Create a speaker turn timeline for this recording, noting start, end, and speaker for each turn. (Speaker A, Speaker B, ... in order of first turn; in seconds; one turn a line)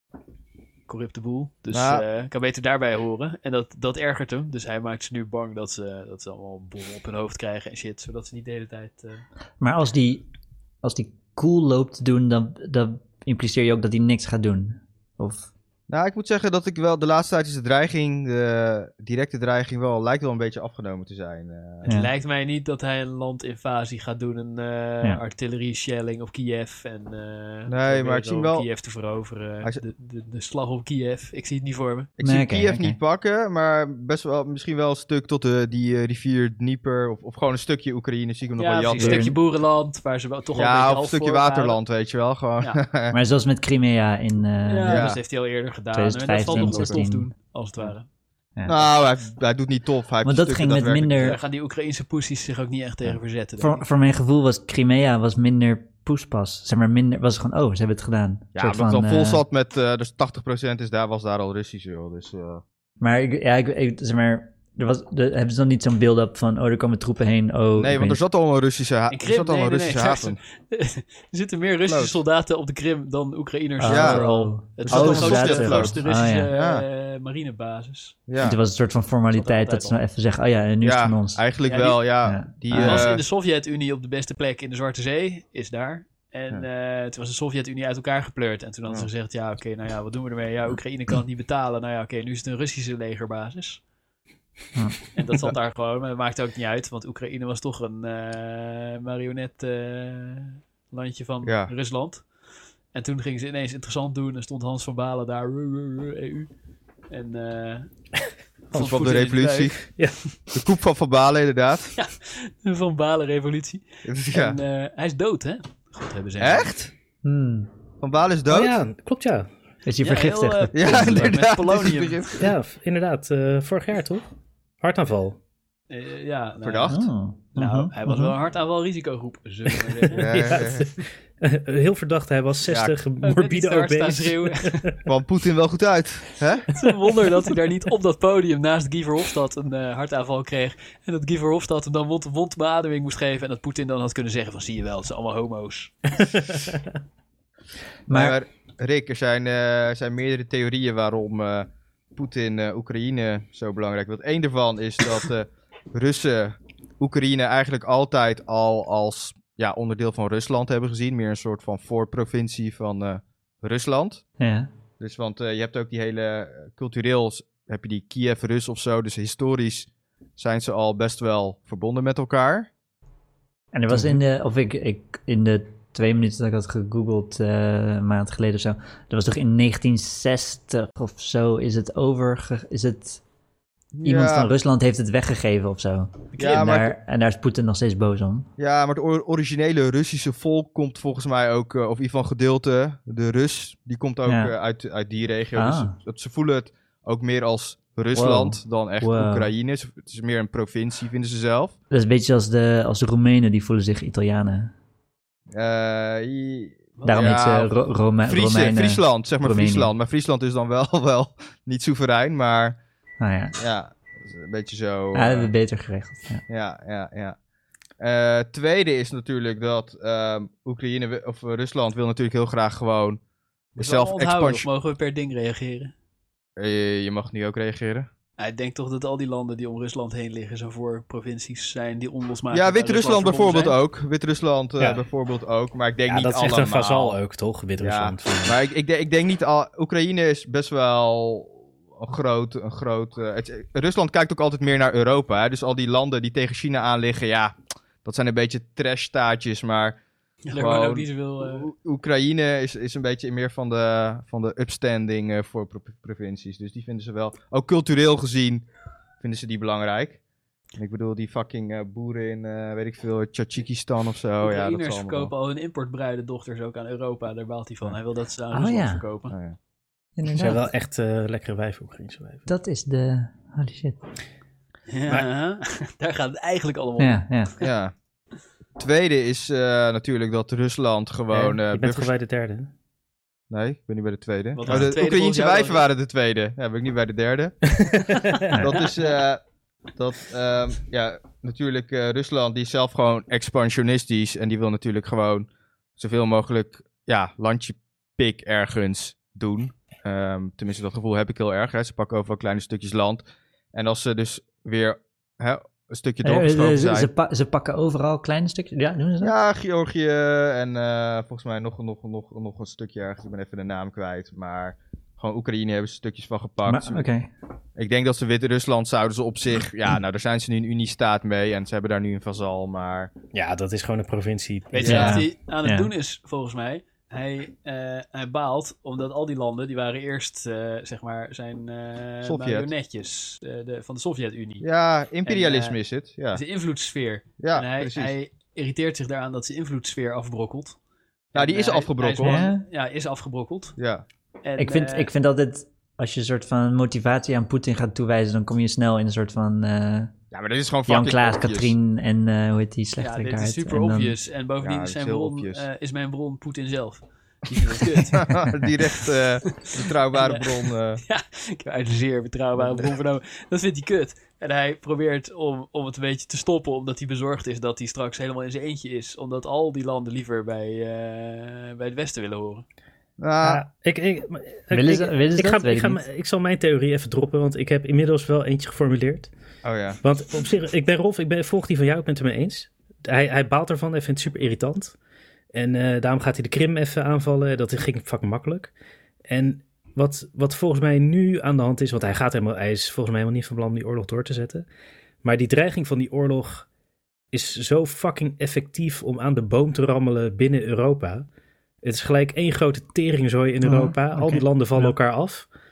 Speaker A: 0.9-9.2
Speaker B: 1.7-2.0
Speaker C: 9.6-10.2
Speaker C: 10.8-15.5
Speaker B: 15.9-21.9
Speaker A: 21.8-32.1
Speaker B: 27.7-28.7
Speaker B: 32.2-39.3
Speaker C: 32.2-33.0
Speaker A: 38.6-41.8
Speaker C: 39.0-39.4
Speaker B: 40.5-43.2
Speaker C: 43.1-45.2
Speaker A: 44.7-48.1
Speaker B: 44.9-45.2
Speaker C: 45.9-47.3
Speaker B: 46.5-47.0
Speaker C: 48.6-48.9
Speaker B: 48.6-51.4
Speaker C: 50.2-51.4
Speaker A: 51.2-53.8
Speaker C: 53.6-59.4
Speaker B: 58.5-62.6
Speaker C: 63.0-68.2
Speaker B: 67.7-70.4
Speaker A: 69.1-78.2
Speaker B: 71.9-72.2
Speaker C: 73.8-76.5
Speaker B: 73.9-74.2
Speaker B: 74.9-76.8
Speaker B: 78.3-78.6
Speaker C: 78.4-81.4
Speaker A: 79.3-80.0
Speaker B: 80.8-83.2
Speaker A: 81.6-82.0
Speaker C: 82.2-83.1
Speaker A: 82.7-93.8
Speaker C: 94.7-95.0
Speaker A: 95.1-102.3
Speaker B: 101.4-101.7
Speaker A: 102.9-106.5
Speaker A: 107.1-107.9
Speaker A: 108.7-109.9
Speaker B: 108.7-109.8
Speaker B: 110.5-111.9
Speaker A: 111.9-116.7
Speaker B: 114.0-114.6
Speaker B: 116.4-116.9
Speaker C: 117.2-117.7
Speaker B: 118.0-118.7
Speaker D: 118.5-119.5
Speaker C: 119.8-121.5
Speaker A: 120.0-122.2
Speaker B: 120.7-122.5
Speaker D: 122.4-124.2
Speaker D: 124.8-125.4
Speaker A: 125.9-127.0
Speaker B: 126.6-127.0
Speaker C: 126.9-128.3
Speaker A: 127.5-130.6
Speaker B: 130.1-130.9
Speaker D: 130.2-134.9
Speaker B: 132.7-132.9
Speaker A: 133.2-134.9
Speaker B: 135.1-136.7
Speaker A: 136.7-145.9
Speaker D: 146.3-146.7
Speaker C: 148.1-148.4
Speaker B: 148.1-164.2
Speaker C: 164.4-164.7
Speaker B: 165.0-172.7
Speaker C: 173.7-183.2
Speaker B: 183.9-184.5
Speaker C: 184.0-188.5
Speaker A: 186.3-186.7
Speaker B: 186.4-186.9
Speaker B: 188.6-201.7
Speaker C: 194.2-194.5
Speaker C: 195.6-195.9
Speaker D: 198.2-199.4
Speaker C: 201.9-204.7
Speaker B: 205.5-207.7
Speaker A: 207.0-207.3
Speaker C: 207.0-209.9
Speaker B: 208.2-212.8
Speaker C: 213.2-213.6
Speaker B: 213.6-215.5
Speaker C: 215.1-216.4
Speaker B: 216.5-217.4
Speaker B: 218.0-223.2
Speaker A: 223.8-225.9
Speaker B: 223.8-224.7
Speaker B: 226.6-228.1
Speaker A: 228.4-233.8
Speaker B: 232.5-237.2
Speaker D: 236.1-238.6
Speaker B: 237.8-250.0
Speaker A: 250.4-251.7
Speaker B: 250.5-258.6
Speaker B: 259.2-260.2
Speaker B: 260.7-265.3
Speaker A: 264.4-269.4
Speaker C: 268.5-269.0
Speaker B: 269.3-269.6
Speaker C: 270.2-270.6
Speaker D: 270.3-272.5
Speaker C: 272.5-274.0
Speaker A: 274.9-277.2
Speaker C: 277.0-277.5
Speaker B: 277.6-277.9
Speaker B: 278.8-282.1
Speaker D: 281.3-282.7
Speaker B: 283.5-287.8
Speaker A: 284.5-285.9
Speaker D: 287.9-288.6
Speaker B: 288.5-289.4
Speaker B: 289.9-307.1
Speaker C: 306.2-309.3
Speaker B: 309.2-317.1
Speaker C: 316.6-317.3
Speaker B: 317.8-323.1
Speaker D: 323.3-325.2
Speaker A: 324.7-334.7
Speaker B: 324.8-325.1
Speaker C: 324.8-325.9
Speaker B: 332.2-332.7
Speaker B: 334.6-336.4
Speaker A: 335.2-335.8
Speaker A: 336.3-340.8
Speaker B: 337.4-338.1
Speaker B: 341.3-342.4
Speaker A: 341.3-343.8
Speaker C: 342.2-342.6
Speaker B: 343.8-344.0
Speaker A: 344.4-345.1
Speaker C: 344.6-350.1
Speaker B: 350.3-351.7
Speaker C: 350.9-354.1
Speaker A: 353.0-358.3
Speaker B: 354.6-355.6
Speaker B: 358.1-361.0
Speaker A: 359.6-360.5
Speaker A: 361.0-372.6
Speaker B: 373.2-373.6
Speaker D: 373.4-379.3
Speaker C: 374.7-376.0
Speaker B: 379.6-380.0
Speaker D: 380.0-384.9
Speaker D: 385.5-388.7
Speaker D: 389.3-394.6
Speaker D: 395.2-396.7
Speaker D: 397.3-401.2
Speaker D: 401.8-405.5
Speaker C: 403.6-404.9